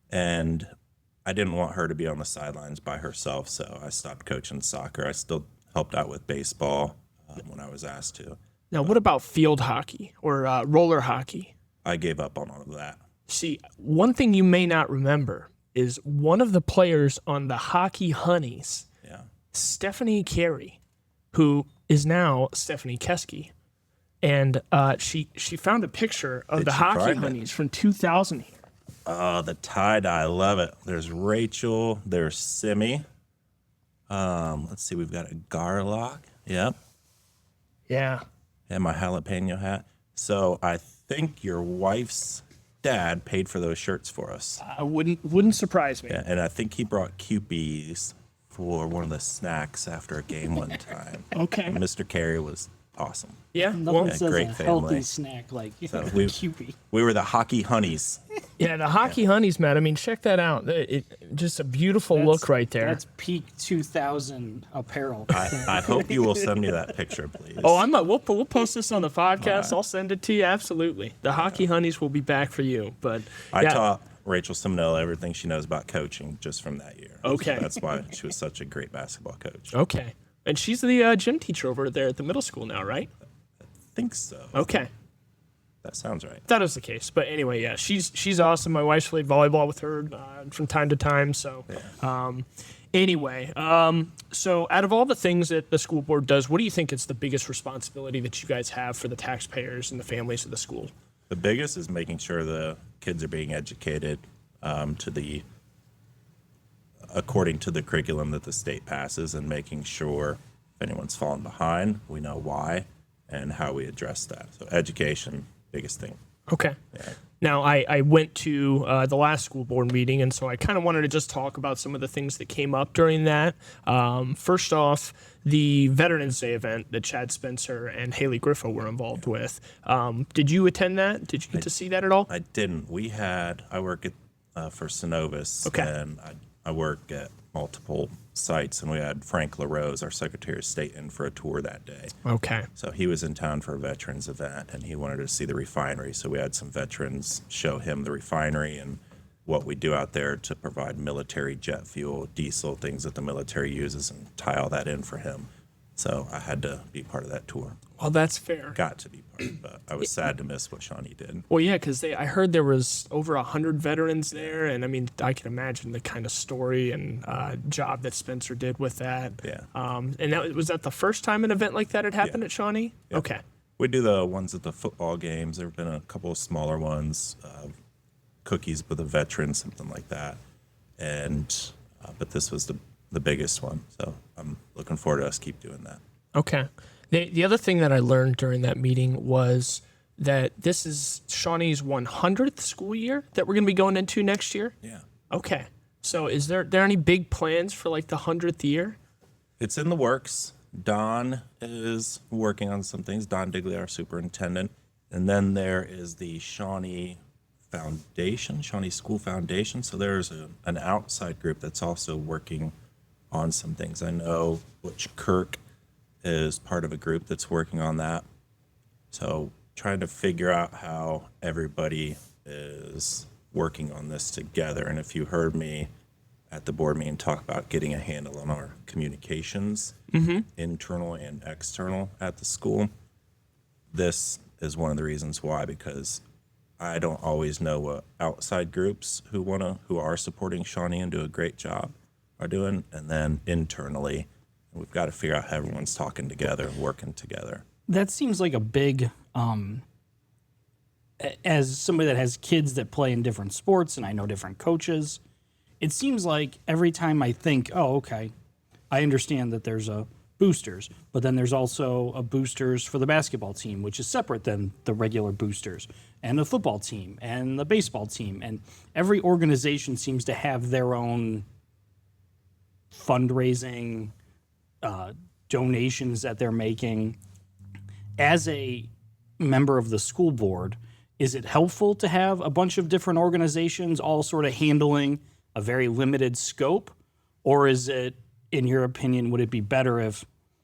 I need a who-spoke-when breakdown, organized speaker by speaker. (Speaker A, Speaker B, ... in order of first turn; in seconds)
Speaker A: 0.1-0.7, 1.2-9.0, 11.8-13.0, 19.0-19.3, 26.6-27.4, 29.1-33.0, 34.1-36.8, 38.7-44.6, 46.1-53.5, 54.0-55.1, 55.9-56.4, 56.9-58.2, 65.3-67.8, 69.4-69.8, 71.4-71.6, 73.5-79.7, 83.9-84.8, 85.8-86.5, 101.3-105.4, 107.1-116.2, 132.3-142.2, 142.8-157.8, 158.8-161.4, 164.3-164.6, 169.4-169.7, 173.8-177.7, 178.4-180.4, 181.0-186.0, 199.6-207.2, 207.7-212.7, 213.3-215.6, 216.2-218.2, 219.1-225.9, 226.5-232.9, 233.9-236.2, 236.8-247.6
Speaker B: 8.7-11.5, 13.3-18.9, 19.5-20.8, 21.3-23.5, 24.2-28.6, 37.9-38.2, 44.6-46.2, 51.3-51.8, 53.5-54.2, 58.6-63.0, 67.6-73.8, 77.2-77.8, 79.7-83.1, 84.5-84.9, 86.5-100.9, 116.5-116.8, 117.4-132.3, 142.2-142.7, 158.0-158.8, 161.5-173.4, 186.3-194.7, 195.3-199.0, 230.1-230.4
Speaker C: 53.6-56.8, 62.1-66.2, 247.9-249.8, 251.2-255.2, 255.8-258.3, 258.9-271.4, 272.9-274.1, 274.8-277.2, 278.2-290.3